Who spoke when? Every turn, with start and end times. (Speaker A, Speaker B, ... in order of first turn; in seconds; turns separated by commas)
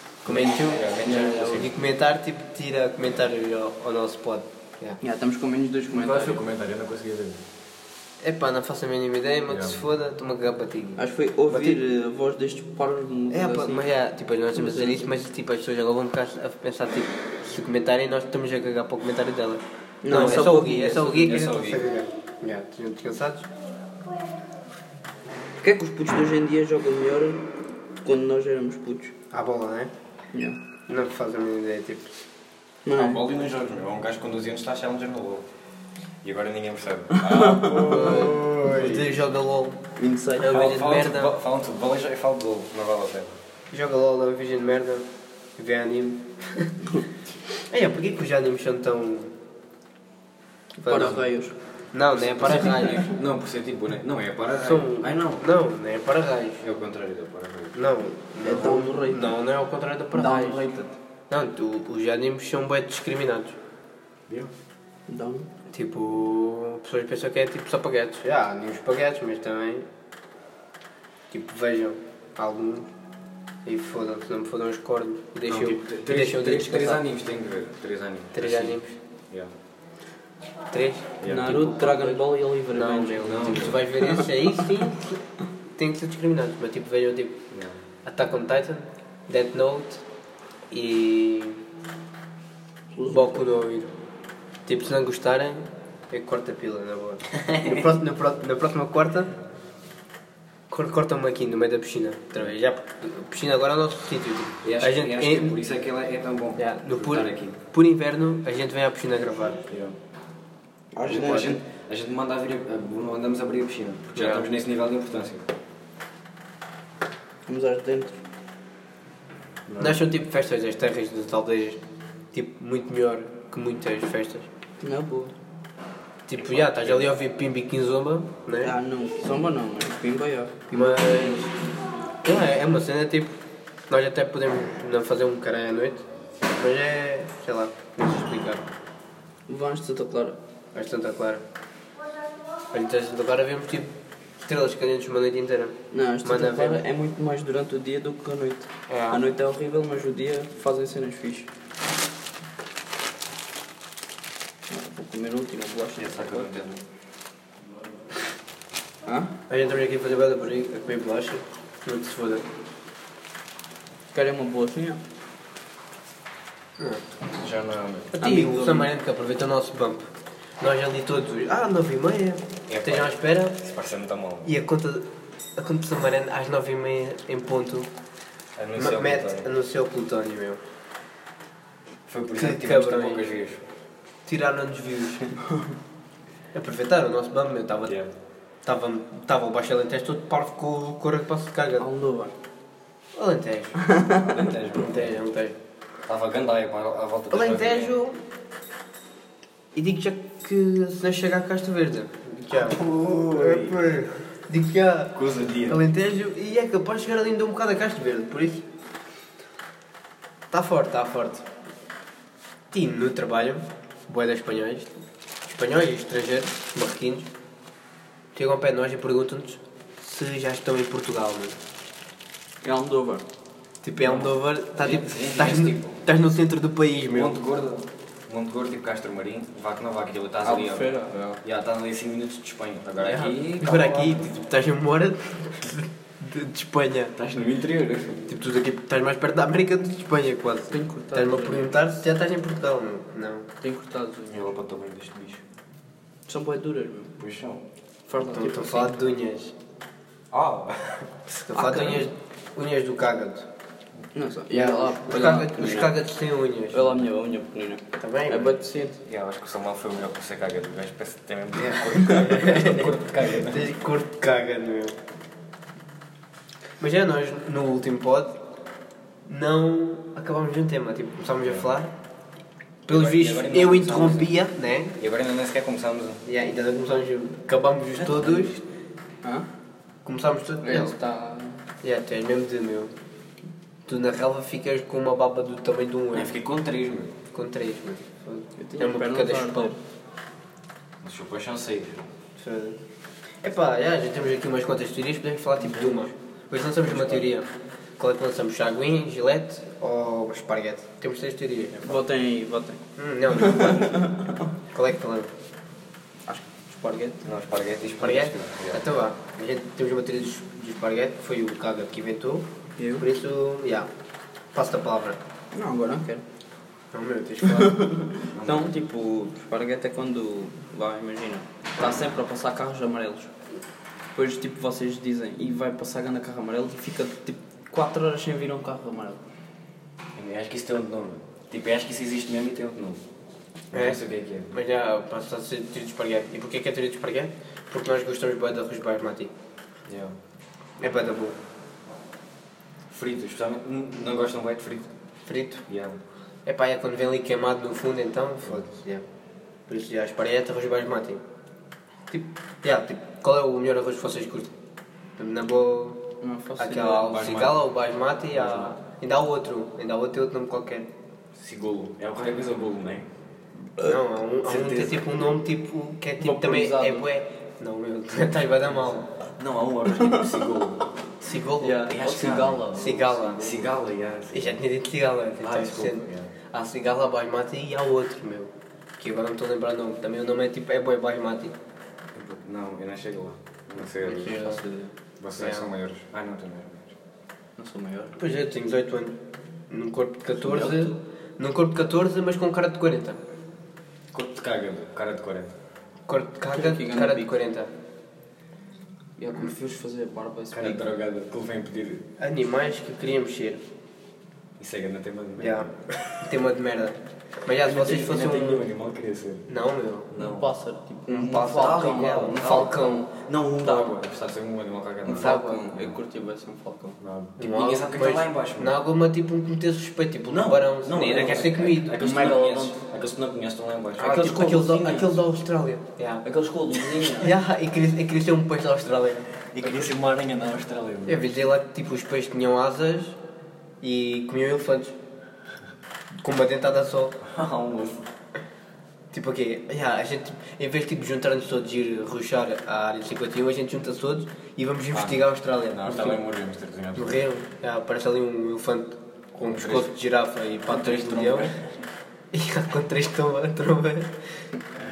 Speaker A: 0.2-1.8, Speaker B: 0.3-5.0, Speaker C: 5.0-6.4, Speaker A: 5.9-7.4, Speaker B: 8.2-11.8, Speaker A: 9.5-9.8, Speaker C: 11.0-13.8, Speaker B: 13.3-23.5, Speaker C: 14.5-15.1, Speaker C: 20.0-20.9, Speaker A: 20.1-21.9, Speaker C: 25.6-27.5, Speaker C: 28.0-29.1, Speaker B: 29.3-29.9, Speaker B: 30.9-32.2, Speaker C: 32.9-33.2, Speaker A: 32.9-35.5, Speaker A: 36.2-39.2, Speaker C: 37.2-38.3, Speaker B: 37.8-39.9, Speaker C: 40.0-40.5, Speaker B: 40.4-41.3, Speaker A: 40.4-43.4, Speaker B: 43.7-45.0, Speaker B: 45.6-46.9, Speaker B: 47.7-49.4, Speaker B: 50.8-51.2, Speaker C: 50.9-51.5, Speaker B: 51.9-53.1, Speaker A: 52.1-55.4, Speaker B: 54.6-56.6, Speaker A: 56.6-57.8, Speaker B: 57.7-60.6, Speaker C: 58.4-59.4, Speaker C: 60.1-60.9, Speaker B: 61.3-63.6, Speaker C: 65.1-65.5, Speaker B: 65.7-69.9, Speaker B: 71.3-72.9, Speaker B: 73.7-77.0, Speaker A: 75.5-78.8, Speaker B: 78.3-78.9, Speaker B: 80.7-81.2, Speaker A: 81.2-81.9, Speaker C: 81.2-84.6, Speaker B: 81.8-82.2, Speaker B: 82.7-85.2, Speaker A: 83.2-83.8, Speaker B: 85.8-87.5, Speaker A: 87.5-87.8, Speaker B: 88.0-90.0, Speaker B: 90.7-91.7, Speaker C: 92.9-93.4, Speaker B: 93.1-93.9, Speaker B: 94.7-99.3, Speaker A: 97.4-97.8, Speaker B: 100.7-105.6, Speaker A: 104.6-107.6, Speaker B: 106.6-109.6, Speaker A: 109.7-110.0, Speaker C: 110.9-111.6, Speaker A: 111.1-115.5, Speaker B: 114.1-114.5, Speaker C: 117.5-118.2, Speaker A: 119.7-120.0, Speaker B: 119.8-121.8, Speaker B: 122.3-124.5, Speaker C: 124.8-125.3, Speaker B: 126.3-128.7, Speaker A: 126.5-127.0, Speaker C: 128.6-131.5, Speaker B: 130.7-131.5, Speaker B: 132.2-133.4, Speaker B: 133.9-138.7, Speaker C: 139.5-140.4, Speaker B: 140.8-141.4, Speaker B: 142.7-146.8, Speaker C: 145.9-151.5, Speaker B: 148.9-149.2, Speaker C: 154.7-156.7, Speaker A: 156.0-156.8, Speaker C: 159.1-159.3, Speaker B: 159.5-162.5, Speaker C: 164.1-165.0, Speaker A: 167.3-168.1, Speaker B: 168.1-170.1, Speaker C: 168.2-168.9, Speaker B: 170.6-173.6, Speaker A: 172.7-174.5, Speaker B: 174.4-177.9, Speaker A: 178.6-179.5, Speaker B: 178.8-180.6, Speaker A: 182.1-183.6, Speaker B: 182.4-183.3, Speaker B: 184.3-185.3, Speaker B: 186.5-188.0, Speaker B: 188.7-191.9, Speaker C: 191.8-192.3, Speaker B: 193.2-193.8, Speaker C: 193.8-194.5, Speaker A: 194.1-195.2, Speaker B: 194.8-195.6, Speaker A: 196.1-197.9, Speaker B: 197.3-198.2, Speaker B: 199.8-208.7, Speaker A: 202.5-203.8, Speaker A: 205.1-205.8, Speaker B: 210.5-211.5, Speaker B: 212.7-214.9, Speaker B: 215.5-217.3, Speaker B: 218.3-221.6, Speaker C: 222.6-223.2, Speaker B: 223.8-227.4, Speaker A: 224.1-226.0, Speaker A: 227.1-230.9, Speaker C: 230.4-231.4, Speaker A: 231.4-234.3, Speaker C: 233.1-233.5, Speaker B: 233.6-237.2, Speaker A: 237.2-238.3, Speaker B: 238.3-243.5, Speaker C: 240.7-241.7, Speaker C: 243.6-244.4, Speaker A: 244.3-245.4, Speaker C: 246.3-247.2, Speaker A: 247.2-247.6, Speaker C: 248.1-249.0, Speaker B: 248.2-249.5, Speaker A: 250.3-251.1, Speaker B: 251.3-253.5, Speaker C: 251.5-252.1, Speaker C: 254.2-255.9, Speaker B: 254.5-257.0, Speaker C: 256.7-259.0, Speaker B: 258.0-258.5, Speaker A: 259.0-263.8, Speaker B: 261.6-265.0, Speaker B: 266.8-268.4, Speaker B: 269.3-271.9, Speaker B: 272.9-275.0, Speaker A: 272.9-274.3, Speaker A: 275.0-276.2, Speaker B: 276.2-278.6, Speaker A: 278.0-278.6, Speaker B: 280.1-280.9, Speaker C: 280.6-281.6, Speaker B: 281.8-282.9, Speaker B: 283.9-286.3, Speaker A: 286.1-287.1, Speaker B: 287.3-289.7, Speaker C: 288.6-289.8, Speaker A: 291.0-292.0, Speaker B: 292.4-292.8, Speaker B: 293.4-301.8, Speaker A: 296.9-297.2, Speaker C: 301.8-304.4, Speaker B: 303.0-304.1, Speaker B: 304.7-305.3, Speaker C: 306.3-307.2, Speaker A: 307.2-308.9, Speaker B: 308.0-312.5, Speaker C: 312.8-313.0, Speaker B: 313.0-313.9, Speaker B: 314.5-315.2, Speaker C: 315.5-316.2, Speaker B: 316.9-317.9, Speaker C: 317.5-323.3, Speaker A: 318.3-318.7, Speaker C: 324.1-329.2, Speaker A: 330.1-333.0, Speaker A: 333.7-334.5, Speaker B: 333.7-339.3, Speaker A: 339.9-340.1, Speaker B: 340.8-341.4, Speaker A: 342.9-344.9, Speaker B: 345.3-345.6, Speaker A: 345.7-346.0, Speaker B: 346.5-349.0, Speaker B: 349.7-351.2, Speaker B: 352.1-354.5, Speaker B: 355.2-356.1, Speaker C: 356.2-357.4, Speaker B: 356.6-360.9, Speaker A: 357.0-357.6, Speaker A: 358.3-358.8, Speaker A: 361.4-363.1, Speaker B: 363.8-369.1, Speaker A: 364.4-365.2, Speaker C: 366.2-367.1, Speaker A: 368.7-370.9, Speaker C: 370.0-370.3, Speaker B: 371.2-371.9, Speaker C: 371.6-373.6, Speaker A: 371.8-374.6, Speaker B: 372.8-373.6, Speaker B: 374.3-381.5, Speaker A: 375.4-376.3, Speaker A: 382.1-384.4, Speaker B: 384.1-384.6, Speaker C: 384.1-384.9, Speaker A: 385.2-386.9, Speaker B: 385.4-385.7, Speaker C: 387.6-388.1, Speaker B: 388.2-393.2, Speaker C: 390.4-390.9, Speaker A: 394.1-395.5, Speaker B: 396.1-397.7, Speaker C: 396.5-397.3, Speaker C: 399.2-400.9, Speaker A: 400.5-402.1, Speaker B: 402.2-403.6, Speaker A: 404.6-406.2, Speaker B: 405.4-408.7, Speaker A: 407.6-409.5, Speaker B: 409.5-410.1, Speaker A: 410.1-410.5, Speaker C: 410.2-413.0, Speaker B: 411.1-413.1, Speaker A: 411.3-415.9, Speaker B: 413.6-413.9, Speaker C: 415.1-417.0, Speaker B: 415.2-415.7, Speaker A: 417.0-418.8, Speaker B: 417.4-422.0, Speaker A: 420.3-425.1, Speaker C: 422.0-422.8, Speaker B: 424.0-426.2, Speaker C: 424.0-425.0, Speaker C: 426.2-427.3, Speaker B: 427.2-429.7, Speaker A: 429.5-431.2, Speaker B: 431.1-433.2, Speaker B: 433.8-434.9, Speaker B: 436.2-437.2, Speaker A: 437.2-438.0, Speaker B: 439.1-446.2, Speaker A: 444.9-447.2, Speaker B: 446.9-451.5, Speaker A: 449.5-449.9, Speaker A: 450.7-451.7, Speaker B: 452.3-454.1